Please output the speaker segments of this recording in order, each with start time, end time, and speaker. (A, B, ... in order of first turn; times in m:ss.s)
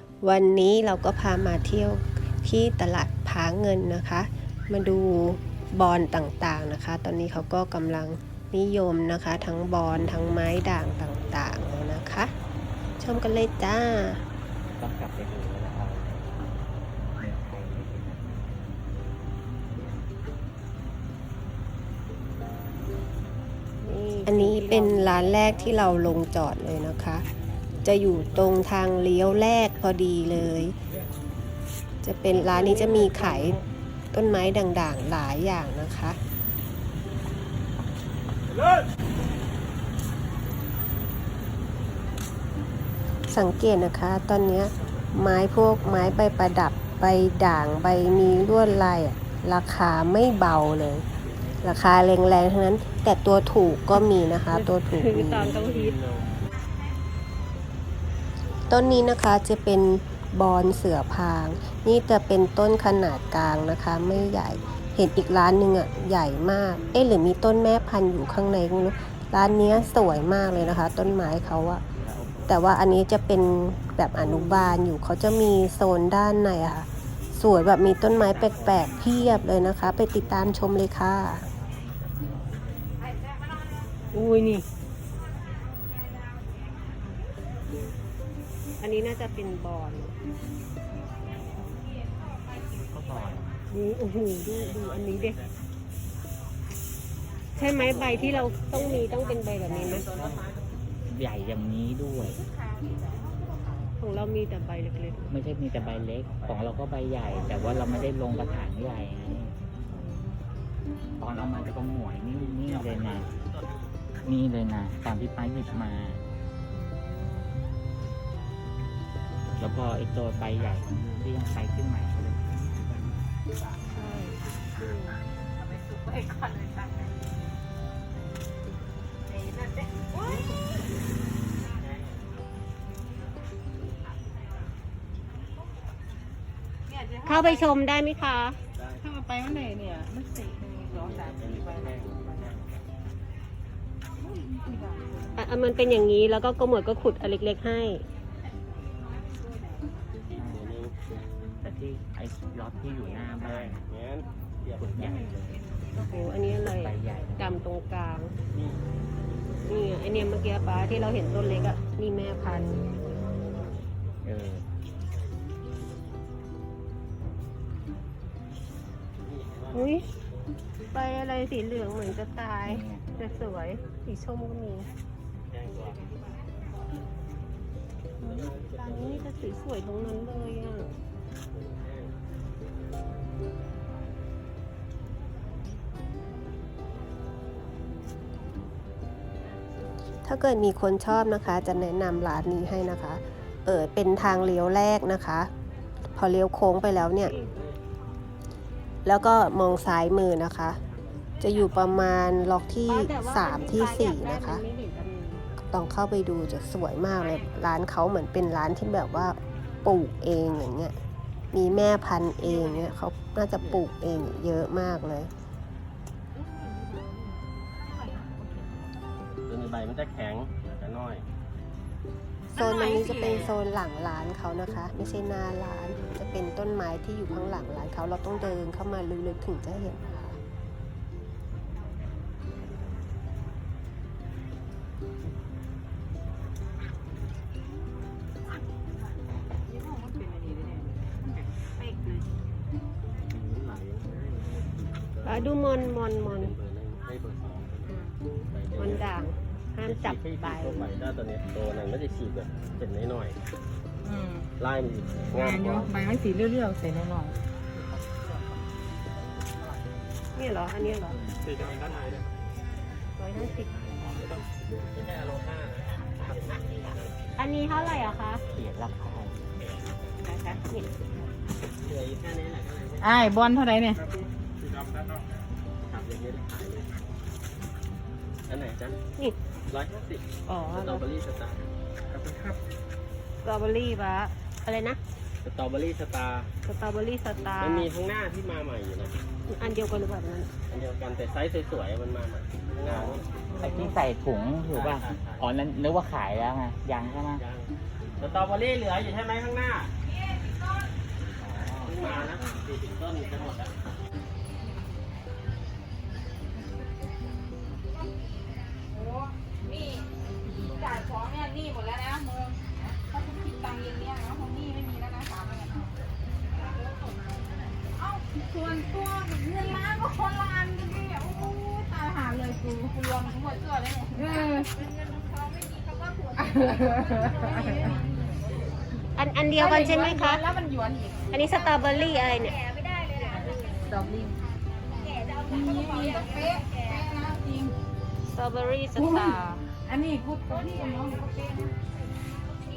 0:00.2-0:12.3 A
0:13.0-0:14.2 A
0:14.8-0:18.8 B
0:23.8-0:25.9 C
0:24.2-0:27.2 A
0:27.8-0:30.7 A
0:32.0-0:33.6 A
0:32.6-0:33.6 C
0:34.1-0:36.2 A
0:43.3-0:51.0 A
0:51.6-0:55.6 A
0:54.5-0:56.0 C
0:55.6-0:56.4 B
0:58.7-1:11.8 A
1:11.9-1:12.6 B
1:12.5-1:21.4 A
1:24.1-1:24.6 C
1:28.8-1:30.1 C
1:32.8-1:33.5 B
1:33.7-1:35.4 C
1:34.4-1:35.5 D
1:37.5-1:40.0 C
1:39.9-1:40.4 B
1:41.1-1:42.4 B
1:44.0-1:45.3 C
1:45.3-1:49.5 B
1:49.9-1:50.2 C
1:51.2-1:53.3 B
1:52.7-1:53.6 D
1:54.2-1:56.2 B
1:59.6-2:03.1 B
2:03.9-2:05.2 C
2:16.9-2:17.4 E
2:17.2-2:18.6 C
2:19.0-2:21.2 E
2:20.9-2:22.6 D
2:25.3-2:28.0 C
2:30.3-2:30.7 B
2:30.6-2:30.9 D
2:31.6-2:33.8 B
2:33.4-2:35.1 D
2:34.8-2:35.7 B
2:36.0-2:38.3 C
2:36.6-2:37.6 B
2:39.6-2:42.9 C
2:44.2-2:44.6 B
2:49.2-2:50.0 D
2:49.7-2:50.1 C
2:50.9-2:54.9 C
2:52.6-2:53.0 B
2:55.5-2:56.0 D
2:58.2-3:00.9 C
2:58.2-2:59.2 D
3:01.5-3:02.1 D
3:10.2-3:15.5 A
3:16.1-3:17.3 A
3:19.0-3:20.8 A
3:21.4-3:24.6 A
3:22.9-3:25.5 C
3:25.6-3:31.0 A
3:31.5-3:35.3 A
3:39.5-3:41.2 D
3:42.5-3:50.4 A
3:42.6-3:43.4 E
4:03.3-4:07.9 D
4:05.2-4:06.5 C
4:08.5-4:09.1 D
4:08.8-4:10.9 C
4:09.9-4:13.4 D
4:14.0-4:14.4 E
4:14.6-4:15.9 D
4:15.4-4:17.3 E
4:20.4-4:21.2 C
4:21.1-4:21.5 B
4:21.6-4:22.2 D
4:23.2-4:24.1 C
4:24.9-4:27.0 D
4:27.4-4:28.4 C
4:27.7-4:28.6 D
4:28.5-4:29.4 B
4:31.8-4:33.3 D
4:33.0-4:34.0 E
4:35.8-4:36.9 D
4:38.5-4:39.0 D
4:39.7-4:41.6 D
4:40.5-4:41.1 C
4:43.4-4:45.0 C
4:45.4-4:46.5 D
4:46.6-4:47.9 C
4:47.6-4:49.2 D
4:49.5-4:50.5 C
4:50.7-4:53.2 D
4:52.9-4:57.4 B
4:53.5-4:53.9 C
4:54.7-4:55.4 D
4:57.4-4:59.9 D
5:01.2-5:02.1 B
5:01.8-5:03.7 D
5:08.9-5:10.0 E
5:10.7-5:15.9 E
5:17.9-5:24.7 E
5:27.2-5:28.4 E
5:29.2-5:30.4 C
5:29.6-5:31.2 E
5:31.3-5:32.6 C
5:33.4-5:34.4 E
5:35.4-5:37.7 E
5:38.3-5:39.6 C
5:39.3-5:41.7 E